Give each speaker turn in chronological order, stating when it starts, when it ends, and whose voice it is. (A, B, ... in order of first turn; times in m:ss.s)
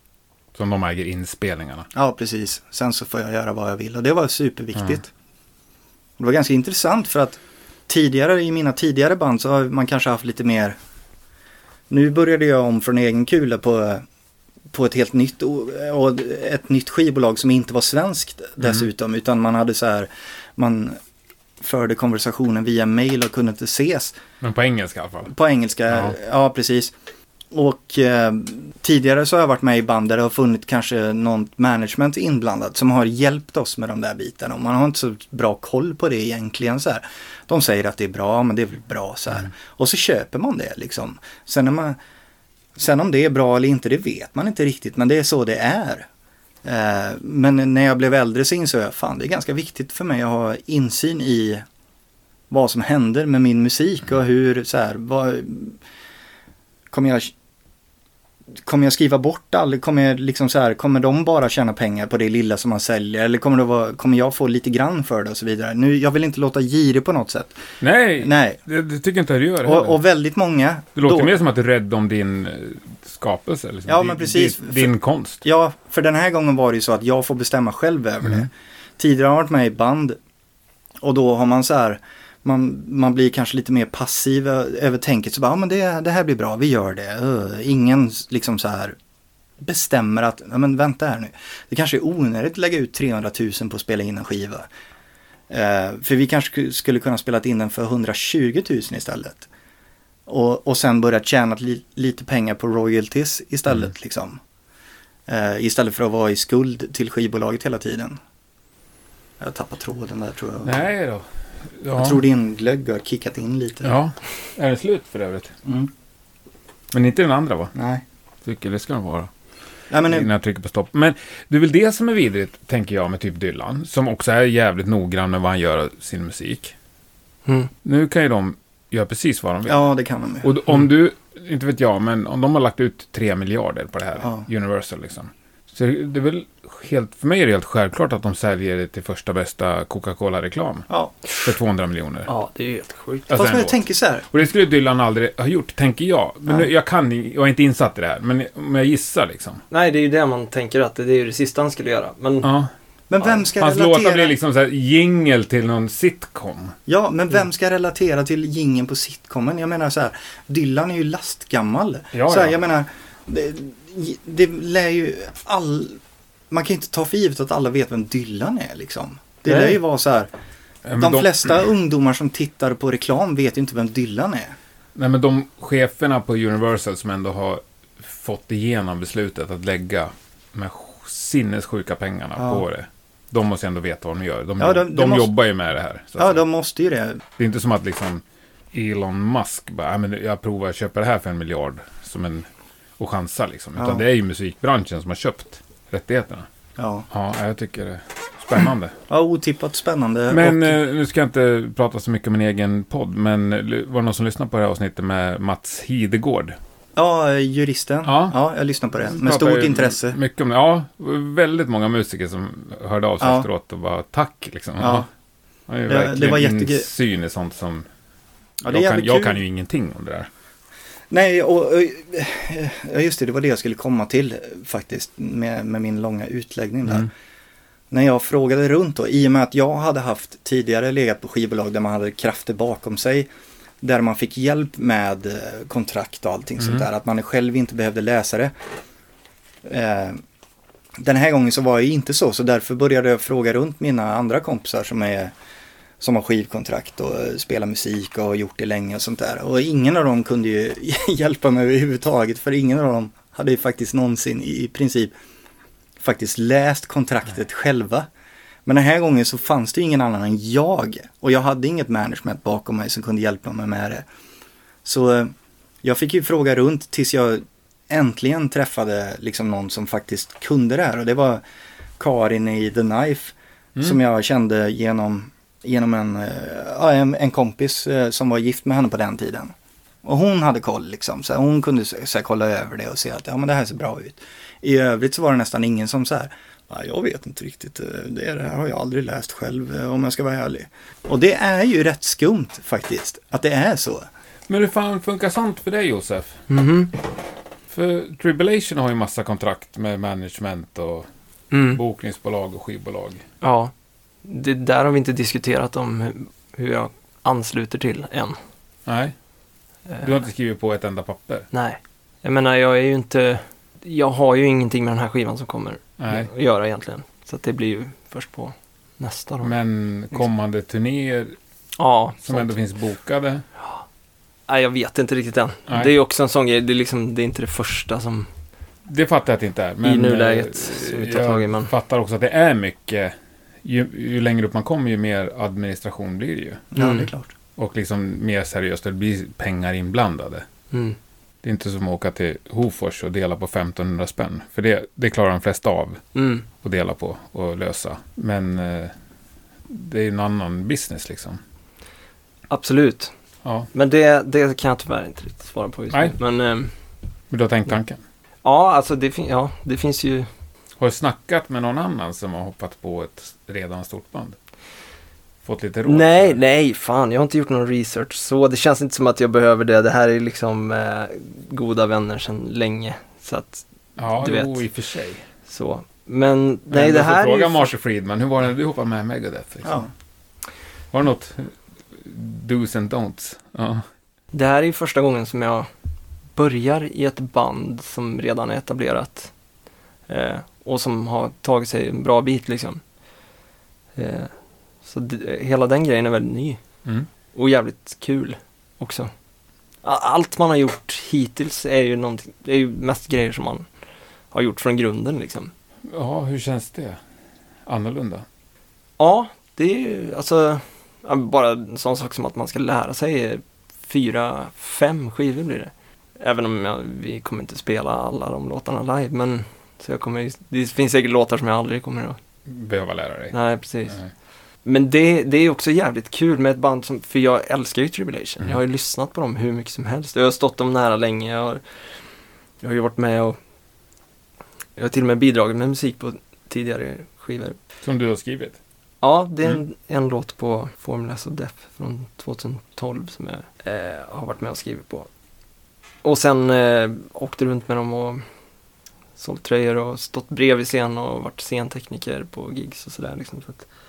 0:00.6-0:01.9 A
0:01.9-0:05.1 B
0:06.2-0:10.8 B
0:11.9-0:14.0 B
0:14.7-0:21.0 B
0:21.6-0:24.2 B
0:24.4-0:25.3 A
0:25.3-0:26.9 B
0:27.5-0:42.0 B
0:42.8-0:46.1 B
0:46.6-0:51.6 B
0:52.5-0:55.8 B
0:56.9-0:57.3 B
0:58.6-1:07.6 B
1:07.8-1:10.0 A
1:08.2-1:08.6 B
1:09.6-1:11.3 B
1:11.0-1:15.4 A
1:13.9-1:20.2 B
1:21.0-1:29.0 B
1:29.6-1:34.7 B
1:35.5-1:39.5 B
1:40.3-1:44.4 B
1:45.3-1:48.2 B
1:49.4-1:50.8 B
1:50.6-1:51.3 A
1:51.8-1:52.2 A
1:52.0-1:53.9 B
1:53.8-1:55.6 A
1:55.6-1:55.9 B
1:56.9-1:57.7 A
1:57.8-1:58.0 B
1:58.4-1:59.3 A
1:59.9-2:00.3 B
2:00.1-2:06.7 A
2:07.5-2:07.7 C
2:07.8-2:09.9 A
2:09.7-2:10.5 B
2:10.4-2:20.9 A
2:14.2-2:14.5 B
2:21.4-2:22.3 A
2:22.3-2:23.3 C
2:23.3-2:23.8 A
2:23.3-2:24.3 B
2:24.3-2:29.6 A
2:29.7-2:32.5 C
2:32.4-2:32.7 A
2:33.1-2:34.3 B
2:33.6-2:36.8 A
2:36.9-2:46.0 B
2:42.1-2:42.6 A
2:46.5-2:50.3 B
2:49.5-2:49.8 C
2:50.9-2:51.6 A
2:51.0-2:54.6 B
2:55.0-3:06.4 A
3:02.4-3:02.6 B
3:04.6-3:05.3 B
3:06.2-3:07.2 B
3:07.4-3:12.5 A
3:13.0-3:16.5 A
3:13.8-3:14.0 B
3:16.8-3:17.1 B
3:17.1-3:19.0 A
3:19.1-3:20.8 B
3:20.3-3:26.6 A
3:27.0-3:30.2 B
3:28.1-3:28.4 A
3:29.2-3:35.1 A
3:33.2-3:33.5 B
3:34.8-3:35.1 B
3:35.7-3:37.9 A
3:35.9-3:36.9 B
3:38.6-3:39.4 B
3:38.7-3:40.3 A
3:41.1-3:47.1 B
3:47.9-3:53.3 B
3:53.8-3:58.5 B
3:56.6-3:56.8 A
3:59.6-4:00.2 B
4:01.0-4:05.3 B
4:06.0-4:15.1 B
4:16.0-4:18.1 B
4:18.6-4:24.1 B
4:24.8-4:31.4 B
4:32.0-4:54.1 B
4:54.5-4:56.4 A
4:56.5-4:56.9 C
4:57.7-5:01.1 A
5:01.5-5:01.8 C
5:01.7-5:03.2 A
5:03.4-5:03.7 C
5:04.2-5:08.4 C
5:08.9-5:09.1 A
5:10.0-5:11.5 A
5:11.5-5:19.6 C
5:16.0-5:16.3 A
5:19.4-5:21.4 A
5:21.8-5:22.5 C
5:22.2-5:23.4 A
5:24.5-5:28.3 C
5:28.9-5:36.6 A
5:29.8-5:31.7 C
5:36.7-5:37.3 B
5:36.8-5:37.1 C
5:37.6-5:40.5 A
5:40.7-5:41.0 C
5:41.4-5:46.0 A
5:46.2-5:46.5 C
5:46.5-5:48.9 A
5:49.7-5:51.4 A
5:52.5-5:53.1 C
5:53.7-5:56.7 C
5:57.3-5:58.0 A
5:58.4-6:00.3 C
6:00.8-6:04.4 A
6:05.4-6:06.4 A
6:05.9-6:13.6 C
6:14.0-6:15.3 A
6:14.2-6:14.6 C
6:15.5-6:17.7 C
6:16.7-6:19.8 A
6:19.6-6:19.9 B
6:20.9-6:23.8 A
6:24.3-6:25.7 C
6:26.4-6:29.3 C
6:30.1-6:32.8 C
6:34.0-6:34.3 C
6:34.8-6:36.6 C
6:37.3-6:39.1 C
6:39.8-6:43.6 C
6:44.3-6:45.5 C
6:45.9-6:47.0 A
6:47.7-6:48.2 A
6:49.0-7:02.2 C
7:02.5-7:03.4 A
7:03.3-7:04.0 C
7:04.6-7:11.6 C
7:12.6-7:13.4 C
7:14.8-7:17.6 C
7:17.8-7:18.6 A
7:19.0-7:25.1 C
7:26.0-7:28.2 C
7:29.2-7:33.7 C